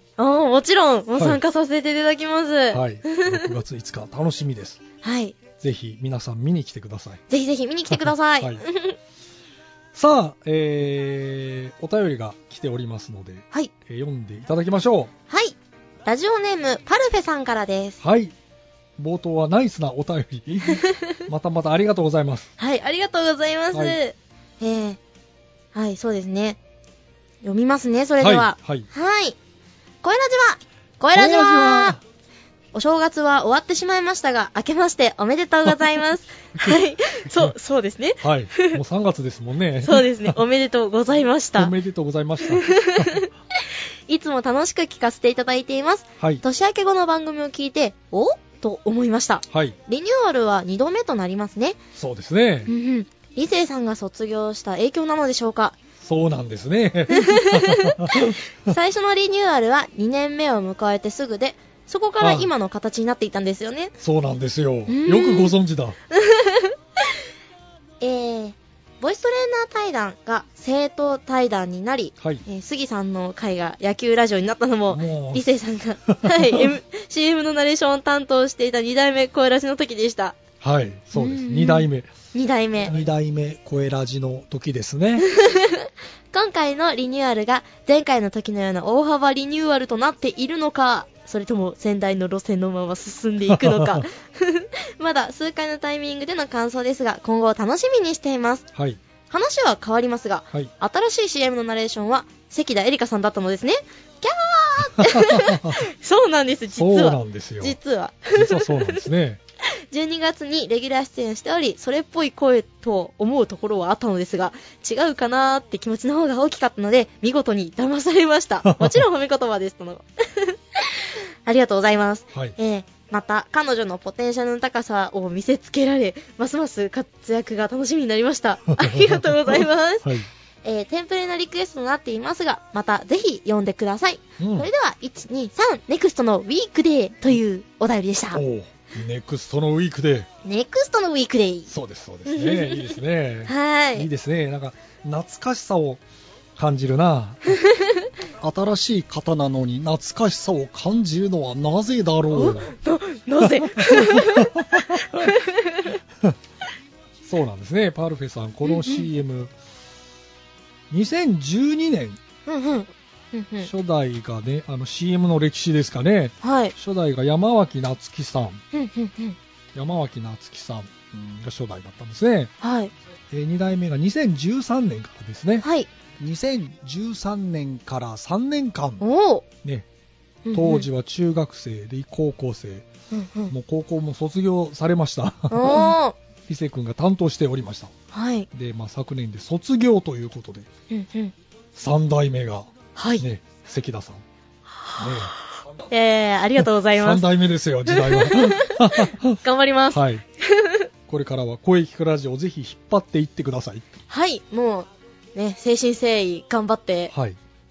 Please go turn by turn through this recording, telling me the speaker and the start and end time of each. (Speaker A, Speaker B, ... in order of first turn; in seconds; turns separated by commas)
Speaker A: 0.2-3.6, Speaker B: 1.2-1.4, Speaker B: 2.7-4.8, Speaker A: 5.0-5.4, Speaker B: 5.6-7.2, Speaker A: 7.3-9.0, Speaker B: 7.9-8.6, Speaker B: 9.9-15.1, Speaker A: 15.3-18.0, Speaker B: 18.0-18.3, Speaker B: 19.0-22.5, Speaker A: 20.7-21.1, Speaker A: 22.6-25.0, Speaker B: 23.7-24.0, Speaker A: 25.7-26.6, Speaker A: 27.4-29.4, Speaker B: 28.2-28.9, Speaker A: 30.0-32.0, Speaker B: 31.1-32.0, Speaker A: 32.7-38.8, Speaker B: 36.6-37.5, Speaker B: 38.2-40.4, Speaker A: 39.8-41.8, Speaker B: 41.5-43.2, Speaker A: 42.4-51.8, Speaker B: 49.5-49.8, Speaker B: 52.0-52.7, Speaker A: 52.7-55.8, Speaker B: 56.0-58.7, Speaker A: 57.1-63.9, Speaker B: 62.2-62.5, Speaker B: 64.0-66.0, Speaker A: 64.9-65.5, Speaker A: 66.1-66.7, Speaker A: 68.0-80.4, Speaker B: 72.2-72.5, Speaker B: 74.9-76.7, Speaker B: 80.6-82.1, Speaker A: 81.1-83.0, Speaker B: 82.8-85.3, Speaker A: 85.2-98.7, Speaker B: 93.5-94.0, Speaker B: 98.7-99.0, Speaker A: 99.3-109.1, Speaker B: 105.0-105.8, Speaker B: 106.7-107.8, Speaker B: 108.3-109.4, Speaker A: 109.7-130.1, Speaker B: 118.6-119.0, Speaker B: 128.8-130.3, Speaker A: 130.6-138.4, Speaker B: 134.4-134.7, Speaker B: 138.3-140.3, Speaker A: 140.4-141.7, Speaker B: 141.7-146.0, Speaker A: 142.3-144.1, Speaker B: 146.6-147.6, Speaker A: 147.6-148.1, Speaker B: 148.3-152.7, Speaker A: 152.3-156.0, Speaker B: 153.4-155.3, Speaker B: 157.2-159.5, Speaker A: 158.6-159.1, Speaker B: 160.9-162.2, Speaker A: 162.5-163.7, Speaker B: 163.6-168.6, Speaker A: 166.4-166.7, Speaker A: 168.7-169.4, Speaker B: 169.8-172.5, Speaker A: 172.6-172.9, Speaker B: 173.3-175.7, Speaker A: 175.6-175.9, Speaker B: 176.2-179.0, Speaker A: 179.0-179.4, Speaker A: 180.4-180.9, Speaker B: 180.5-182.9, Speaker A: 183.1-183.5, Speaker B: 183.5-185.9, Speaker A: 185.5-186.2, Speaker B: 186.5-187.9, Speaker A: 188.1-188.5, Speaker B: 188.5-190.7, Speaker A: 190.9-191.3, Speaker B: 191.8-194.2, Speaker A: 192.9-193.2, Speaker A: 194.8-197.3, Speaker B: 195.0-195.3, Speaker B: 196.6-200.2, Speaker A: 197.9-200.8, Speaker B: 201.1-203.8, Speaker A: 204.1-207.1, Speaker B: 207.1-207.4